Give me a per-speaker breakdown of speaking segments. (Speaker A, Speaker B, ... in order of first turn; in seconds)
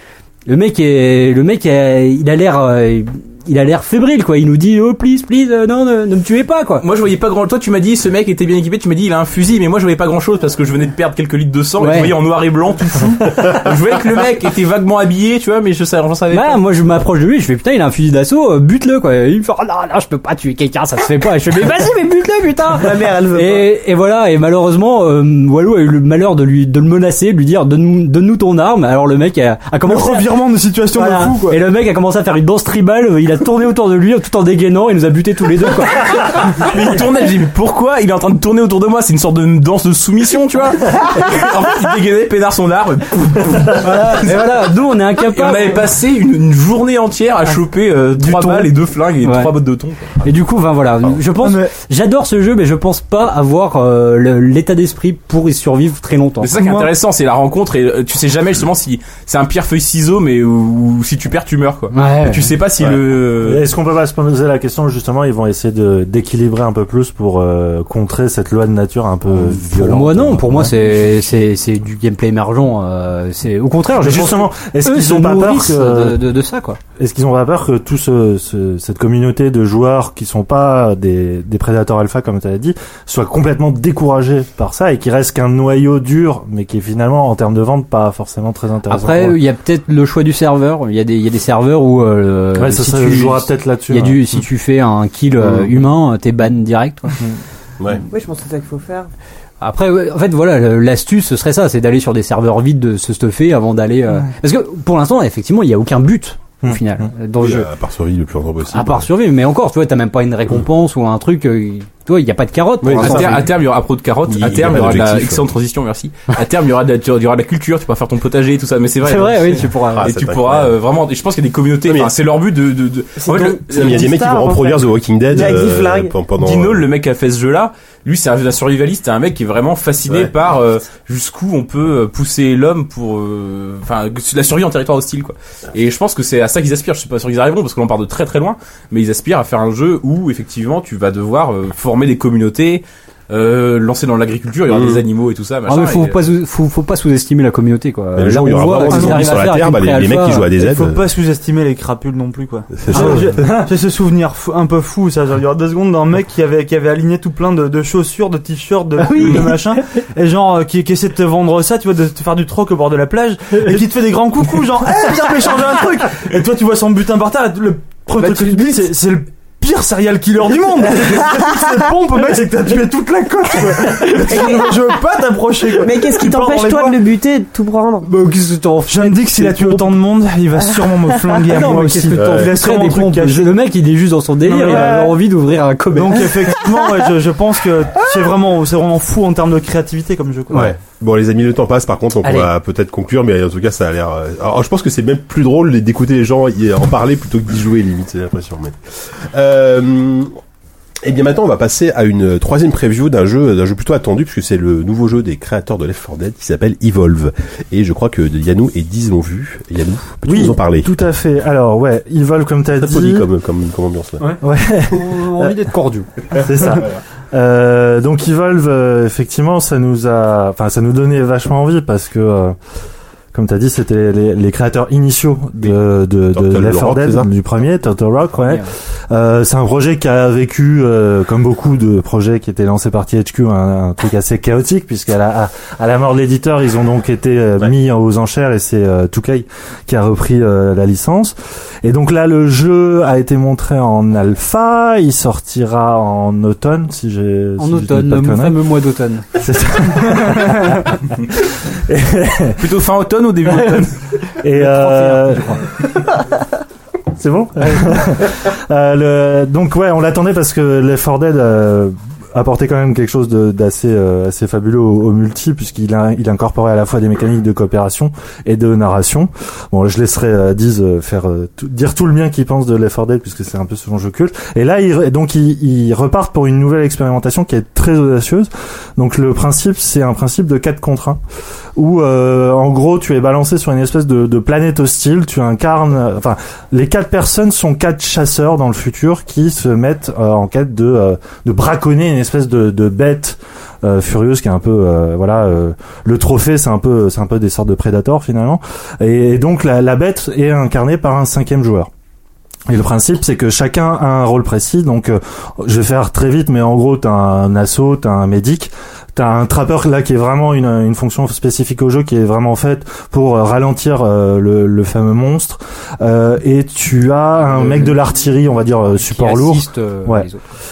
Speaker A: 0.5-6.8, 11.8-12.1, 16.3-30.3, 30.9-36.3, 43.8-45.8, 48.2-48.7, 49.2-49.5, 50.2-56.7, 61.9-62.5, 69.3-76.8, 88.9-97.2, 99.6-107.7, 108.7-113.5, 119.0-120.1, 145.7-150.5, 159.1-159.5, 178.0-179.9, 181.5-186.5, 214.9-216.1, 247.6-249.3, 253.5-253.9, 254.6-255.6, 317.5-318.2, 318.9-320.4
Speaker B: 6.8-16.6, 36.1-44.6, 45.2-50.2, 56.4-63.6, 112.9-124.2, 126.4-146.2, 252.6-254.0
Speaker C: 22.7-23.7, 98.1-99.1, 123.2-126.1, 174.3-174.8, 175.8-178.1, 184.6-185.2
Speaker D: 29.9-31.6, 51.4-51.7, 56.6-56.9, 148.9-149.4, 150.6-177.0, 178.9-183.5, 184.5-185.0, 185.9-190.8
Speaker E: 62.8-71.1, 74.0-76.2, 77.0-89.4, 92.6-94.4, 153.0-153.7, 210.2-213.3, 214.4-215.5, 216.4-222.6, 223.3-248.6, 249.4-251.2, 251.7-252.7, 254.4-255.6, 257.2-281.2, 281.8-301.9, 302.7-320.3
Speaker F: 107.4-109.1, 112.8-113.5, 114.3-115.5, 119.9-120.8, 121.9-122.1, 123.7-126.9, 144.7-145.0, 148.2-151.0, 152.8-153.3, 182.2-182.5, 190.5-200.4, 201.0-210.9, 212.8-214.4, 226.3-227.3